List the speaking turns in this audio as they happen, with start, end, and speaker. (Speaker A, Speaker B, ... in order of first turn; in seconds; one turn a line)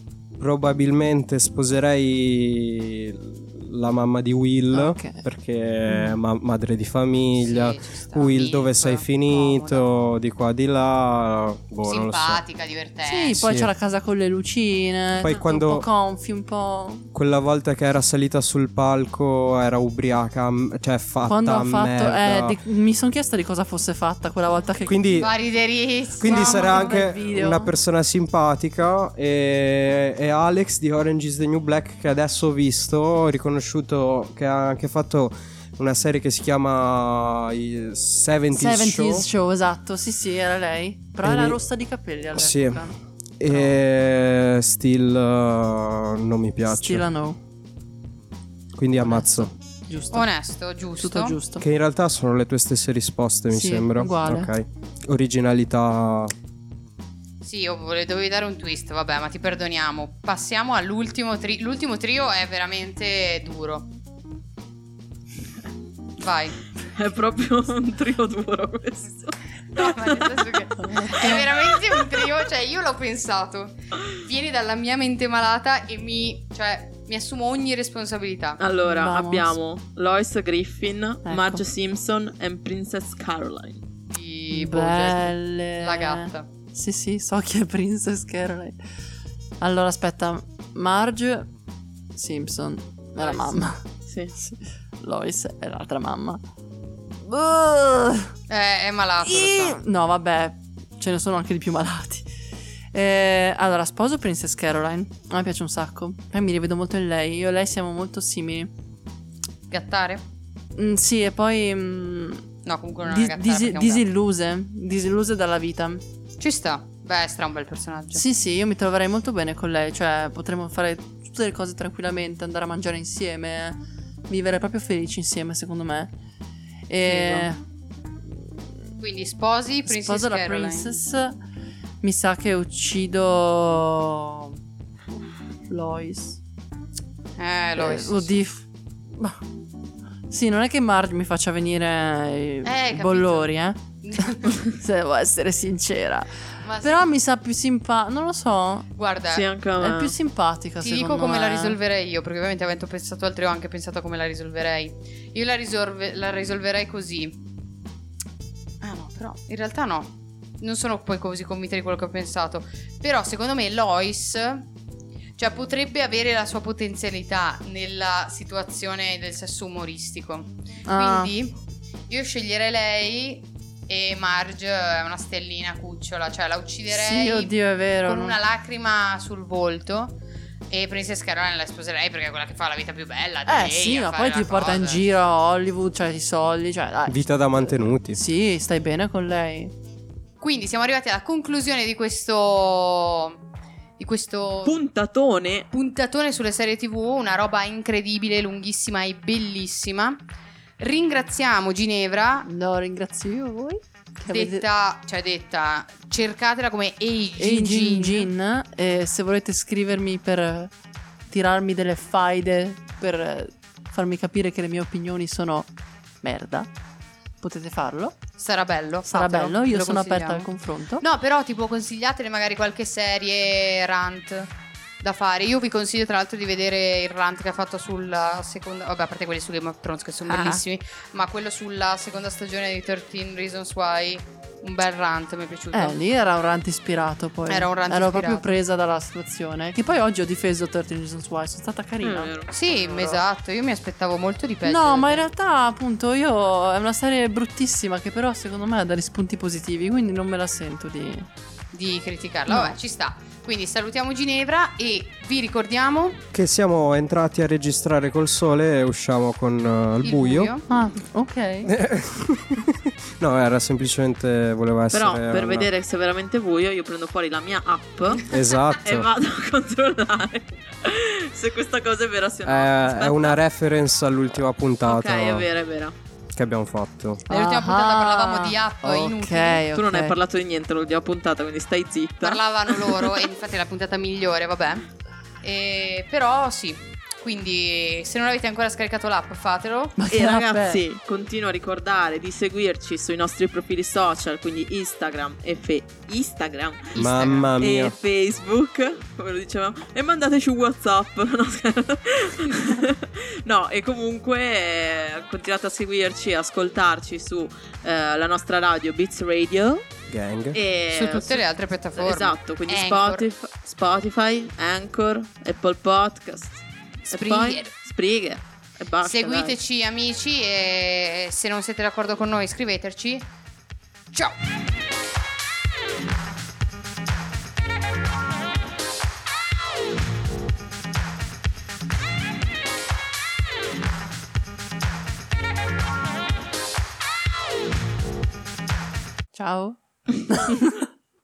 Speaker A: 0.4-12.4
Speaker B: 4.7-5.2
Speaker B: 5.9-6.2
Speaker C: 7.3-9.9
Speaker C: 11.8-13.5
Speaker B: 13.0-17.1
Speaker A: 13.3-13.7
Speaker A: 15.2-15.8
Speaker A: 17.1-22.6
Speaker B: 21.2-25.2
Speaker A: 24.9-25.3
Speaker C: 25.2-27.0
Speaker A: 26.2-39.2
Speaker B: 26.2-27.7
Speaker B: 38.5-43.8
Speaker A: 41.2-41.6
Speaker A: 42.3-42.9
Speaker A: 43.4-47.0
Speaker B: 46.7-47.4
Speaker A: 48.7-49.5
Speaker B: 49.0-50.3
Speaker C: 50.1-51.4
Speaker B: 51.0-51.6
Speaker A: 51.6-56.3
Speaker B: 53.5-54.5
Speaker C: 57.4-63.9
Speaker C: 66.2-66.5
Speaker D: 66.9-70.4
Speaker C: 69.7-78.6
Speaker D: 70.9-72.2
Speaker B: 71.0-71.3
Speaker D: 78.6-83.8
Speaker B: 78.8-79.6
Speaker B: 81.2-81.6
Speaker C: 84.1-86.5
Speaker B: 84.5-88.8
Speaker B: 89.6-91.5
Speaker B: 92.1-93.8
Speaker D: 94.1-94.3
Speaker B: 94.3-96.4
Speaker B: 97.2-98.3
Speaker C: 98.5-99.8
Speaker B: 99.2-102.3
Speaker B: 102.9-108.7
Speaker C: 109.7-110.2
Speaker B: 110.7-112.4
Speaker C: 112.6-114.1
Speaker B: 113.0-116.0
Speaker C: 116.4-118.2
Speaker B: 118.1-126.1
Speaker B: 126.9-127.6
Speaker C: 129.0-130.9
Speaker B: 129.8-131.4
Speaker B: 132.0-134.6
Speaker B: 135.7-136.4
Speaker C: 137.4-138.3
Speaker B: 137.8-139.4
Speaker B: 140.3-148.9
Speaker C: 142.6-143.5
Speaker C: 144.0-144.7
Speaker C: 146.6-147.1
Speaker C: 149.0-149.5
Speaker D: 149.3-150.1
Speaker B: 149.8-151.8
Speaker C: 150.8-157.4
Speaker C: 158.8-164.7
Speaker C: 165.4-171.6
Speaker B: 170.8-171.3
Speaker C: 172.1-180.2
Speaker B: 176.9-178.4
Speaker C: 180.7-185.0
Speaker B: 183.4-189.7
Speaker A: 187.1-188.2
Speaker C: 190.4-193.4
Speaker C: 194.0-194.8
Speaker D: 194.6-195.7
Speaker C: 195.7-200.2
Speaker C: 200.8-202.5
Speaker B: 202.4-204.6
Speaker C: 204.3-208.3
Speaker B: 207.4-210.7
Speaker B: 211.3-215.7
Speaker B: 216.2-216.7
Speaker B: 217.4-218.2
Speaker C: 218.4-220.5
Speaker B: 219.1-221.0
Speaker C: 221.0-224.5
Speaker C: 225.0-236.0
Speaker B: 230.3-230.6
Speaker B: 235.7-242.3
Speaker C: 237.5-238.4
Speaker D: 242.0-243.2
Speaker C: 242.5-245.3
Speaker B: 244.6-251.3
Speaker C: 251.7-256.2
Speaker B: 252.5-252.8
Speaker A: 256.3-260.5
Speaker C: 260.0-260.7
Speaker B: 260.7-261.7
Speaker A: 261.6-265.7
Speaker D: 264.9-273.4
Speaker A: 268.2-269.1
Speaker A: 272.4-275.5
Speaker D: 274.8-275.9
Speaker A: 276.3-277.2
Speaker C: 277.3-279.6
Speaker B: 277.3-280.2
Speaker D: 279.7-283.3
Speaker C: 282.2-284.9
Speaker C: 285.4-290.0
Speaker B: 290.0-290.8
Speaker D: 290.1-296.9
Speaker C: 296.9-297.5
Speaker A: 296.9-297.9
Speaker D: 297.6-309.9
Speaker A: 310.1-310.6
Speaker D: 310.5-319.6
Speaker C: 310.9-313.3
Speaker C: 317.1-317.7
Speaker C: 319.0-323.3
Speaker B: 339.3-340.9